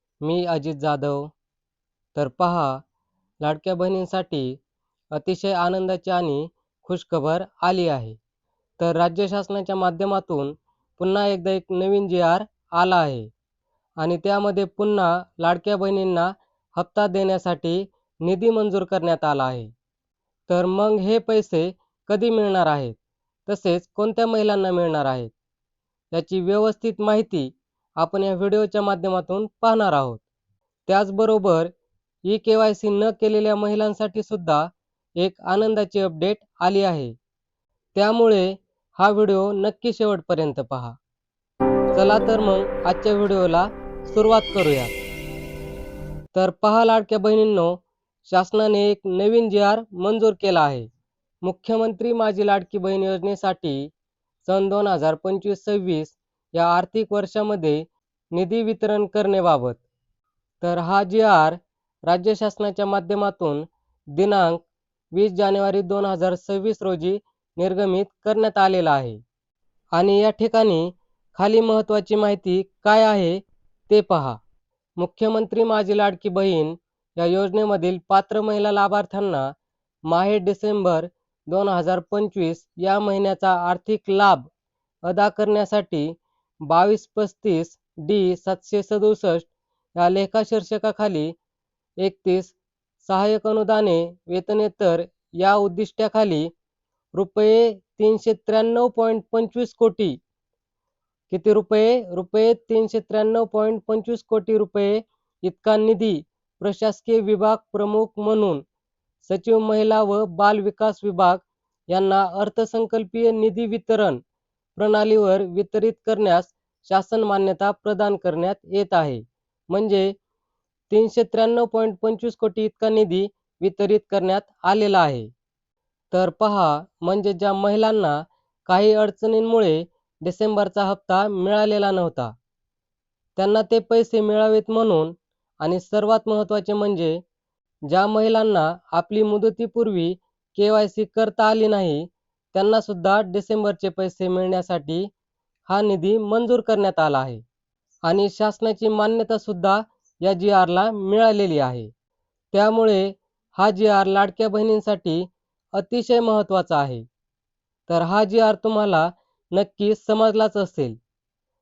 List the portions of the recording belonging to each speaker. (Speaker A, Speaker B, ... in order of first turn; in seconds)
Speaker A: 0.2-1.3, 2.1-2.8, 3.4-4.6, 5.1-8.2, 8.8-13.3, 14.0-19.7, 20.5-22.9, 23.5-25.3, 26.1-30.2, 30.9-31.7, 32.3-37.1, 37.9-41.0, 41.9-44.9, 46.3-50.9, 51.4-53.9, 54.4-59.8, 60.6-69.2, 69.9-74.4, 75.0-79.5, 80.1-84.5, 85.0-86.1, 86.6-91.3, 92.0-96.5, 97.1-100.2, 101.3-108.6, 109.2-114.2, 114.8-120.1, 120.9-125.3, 126.1-132.3, 133.3-137.2, 137.9-145.1, 145.7-147.4, 148.1-151.9, 152.5-157.0, 157.9-161.0